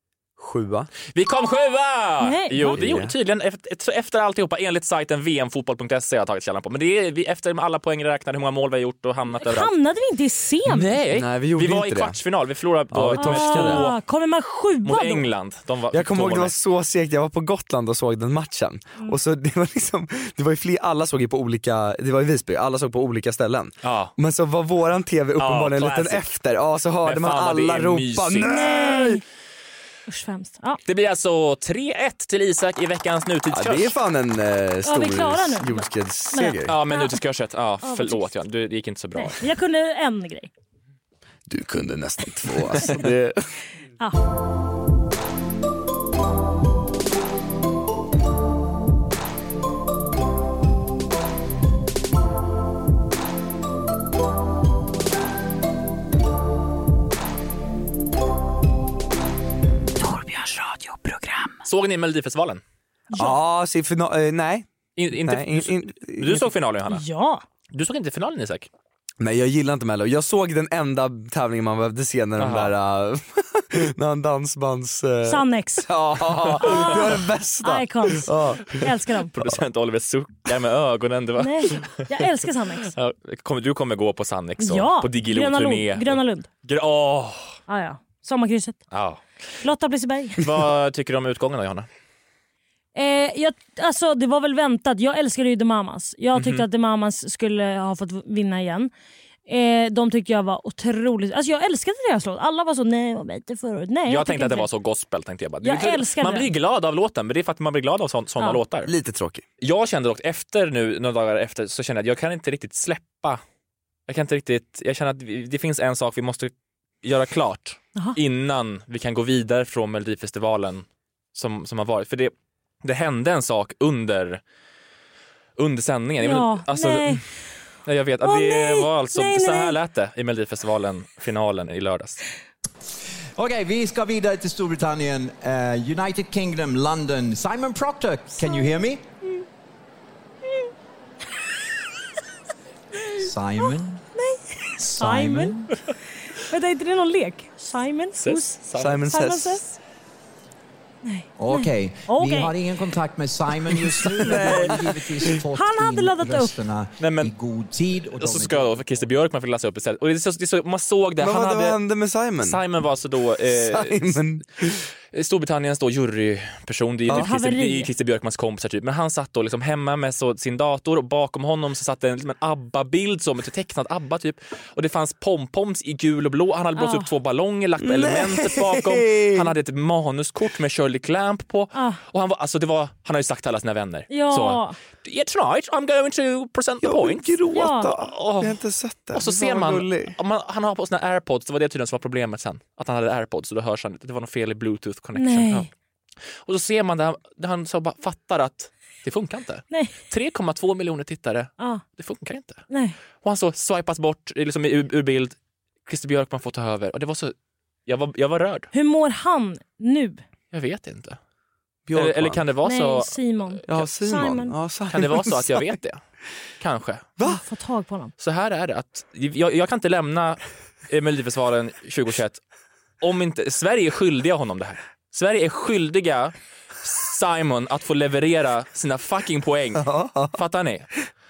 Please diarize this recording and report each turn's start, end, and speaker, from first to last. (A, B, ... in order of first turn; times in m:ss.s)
0:00.4-0:00.9 A
0:01.1-0:09.7 B
0:02.2-0:02.8 C
0:02.7-0:03.1 A
0:09.4-0:10.9 C
0:10.6-0:14.0 B
0:11.1-0:12.2 A
0:12.9-0:13.9 A
0:13.2-0:15.2 C
0:14.8-0:16.6 B
0:15.9-0:29.2 A
0:23.8-0:24.1 B
0:25.4-0:26.3 B
0:27.0-0:28.8 B
0:28.4-0:29.2 C
0:30.1-0:30.8 C
0:30.9-0:33.9 B
0:33.5-0:36.8 A
0:34.8-0:37.2 C
0:36.6-0:39.4 B
0:37.8-0:38.3 C
0:39.1-0:40.5 C
0:41.5-0:43.4 A
1:00.0-1:01.5 C
1:01.6-1:02.6 B
1:03.1-1:06.5 A
1:05.0-1:07.0 B
1:06.9-1:07.4 C
1:07.7-1:08.7 B
1:09.2-1:18.9 A
1:12.4-1:12.7 B
1:15.2-1:15.9 C
1:16.4-1:17.1 B
1:16.6-1:19.3 C
1:19.3-1:22.0 B
1:21.4-1:22.9 C
1:22.8-1:27.6 B
1:24.6-1:26.5 C
1:27.7-1:28.8 C
1:28.9-1:29.2 B
1:29.6-1:30.4 C
1:30.4-1:31.9 B
1:32.9-1:38.9 C
1:36.4-1:36.6 B
1:39.5-1:44.7 C
1:44.1-1:48.9 B
1:45.6-1:46.5 C
1:48.9-1:49.4 A
1:49.6-1:53.4 B
1:54.1-1:56.5 B
1:57.0-2:02.3 B
2:02.8-2:04.4 B
2:05.6-2:07.2 B
2:06.2-2:07.2 C
2:07.8-2:12.2 B
2:08.2-2:09.8 C
2:13.4-2:19.0 D
2:23.2-2:24.0 D
2:24.2-2:25.6 C
2:24.8-2:25.7 D
2:26.4-2:29.8 C
2:28.2-2:29.0 B
2:28.8-2:29.6 A
2:31.0-2:32.5 C
2:31.4-2:39.0 D
2:34.3-2:34.6 A
2:34.3-2:34.7 B
2:35.5-2:36.5 C
2:37.0-2:37.3 B
2:38.2-2:41.8 B
2:41.2-2:42.6 A
2:42.4-2:44.2 B
2:43.5-2:44.8 A
2:45.1-3:07.4 B
2:47.1-2:47.9 C
2:56.8-2:57.1 C
2:57.8-2:59.5 A
3:01.7-3:02.0 C
3:04.1-3:04.8 C
3:06.8-3:10.1 A
3:07.5-3:07.9 C
3:08.0-3:08.6 B
3:09.1-3:15.7 B
3:15.1-3:15.7 C
3:16.4-3:22.6 B
3:22.7-3:23.0 C
3:23.2-3:27.3 B
3:27.9-3:28.7 B
3:28.7-3:30.2 C
3:30.5-3:31.2 B
3:31.9-3:32.4 A
3:31.9-3:33.2 B
3:32.6-3:34.6 C
3:33.7-3:35.7 A
3:34.9-3:36.0 B
3:36.6-3:37.2 B
3:37.2-3:38.1 C
3:38.2-3:42.4 B
3:43.0-3:50.9 B
3:49.8-3:50.3 A